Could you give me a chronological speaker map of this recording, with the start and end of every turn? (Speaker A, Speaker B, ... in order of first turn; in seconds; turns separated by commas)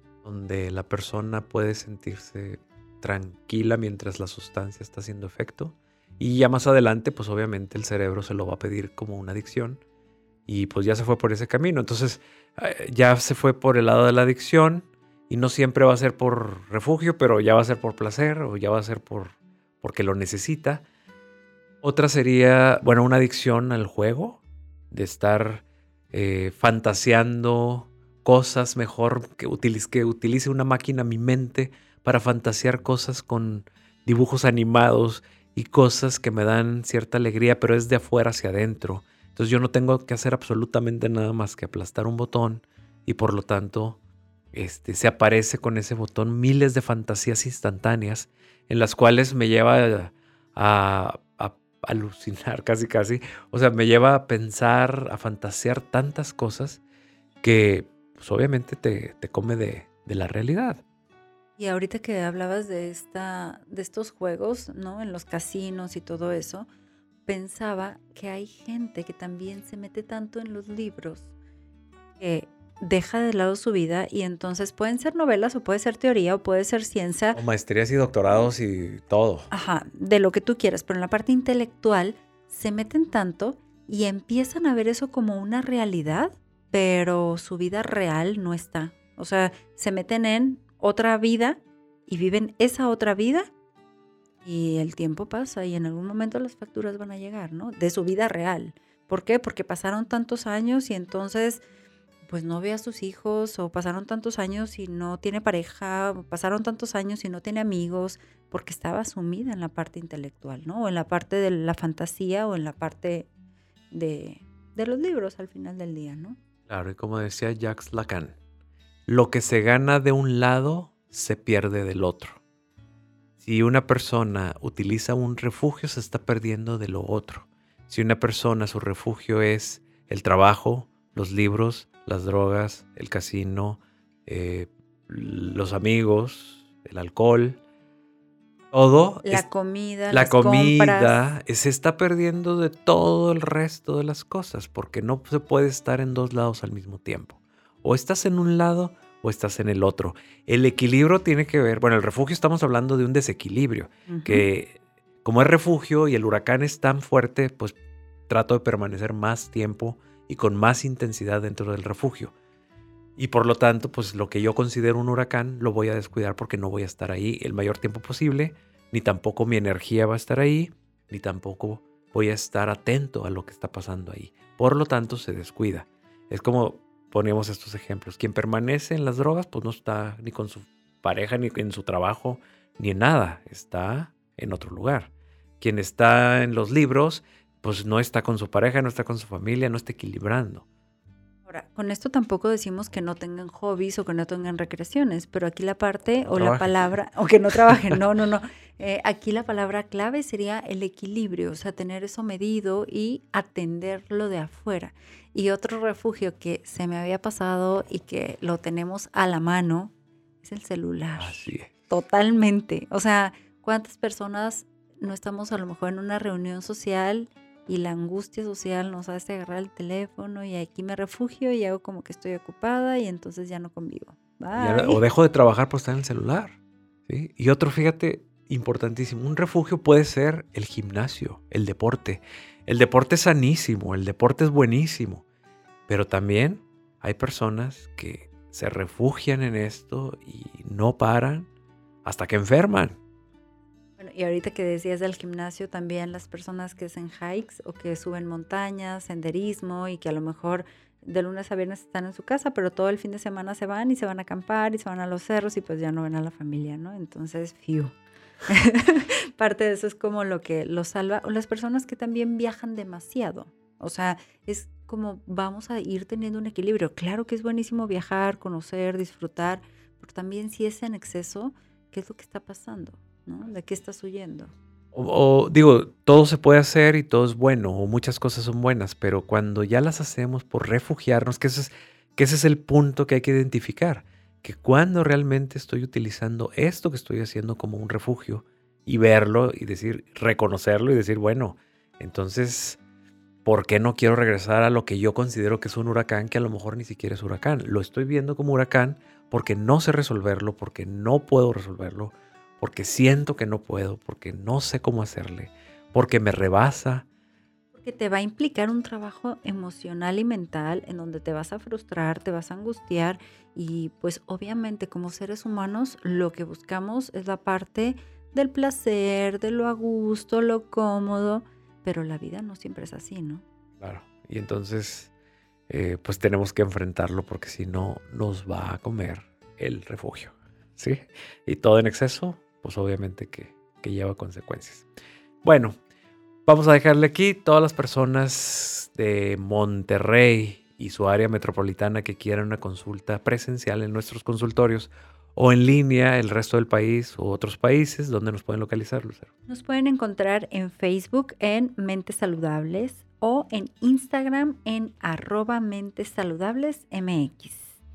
Speaker A: 0.2-9.8, Speaker A: 10.5-20.9, Speaker A: 21.8-44.0, Speaker A: 44.5-56.8, Speaker A: 57.4-60.8, Speaker B: 61.6-66.7, Speaker B: 67.3-71.3, Speaker B: 72.2-77.4, Speaker A: 77.3-79.5, Speaker B: 79.5-93.5, Speaker B: 94.4-101.6, Speaker B: 102.3-113.3, Speaker B: 113.9-116.4, Speaker A: 116.7-118.4, Speaker A: 119.1-122.4, Speaker A: 123.4-137.6, Speaker A: 138.7-139.4, Speaker B: 139.2-141.3, Speaker A: 140.1-157.8, Speaker B: 154.1-154.5, Speaker A: 158.3-162.3, Speaker A: 163.2-190.7, Speaker B: 191.5-225.0, Speaker A: 196.3-196.9, Speaker A: 211.2-211.7, Speaker A: 224.5-226.6, Speaker A: 227.1-235.2, Speaker A: 235.9-241.5, Speaker A: 242.0-243.0, Speaker B: 244.0-257.9, Speaker B: 258.5-274.5, Speaker A: 274.9-292.8, Speaker A: 293.4-307.1, Speaker B: 307.8-323.4, Speaker A: 323.8-325.1, Speaker A: 325.7-334.9, Speaker A: 335.4-335.8, Speaker A: 336.5-349.3, Speaker B: 349.5-357.8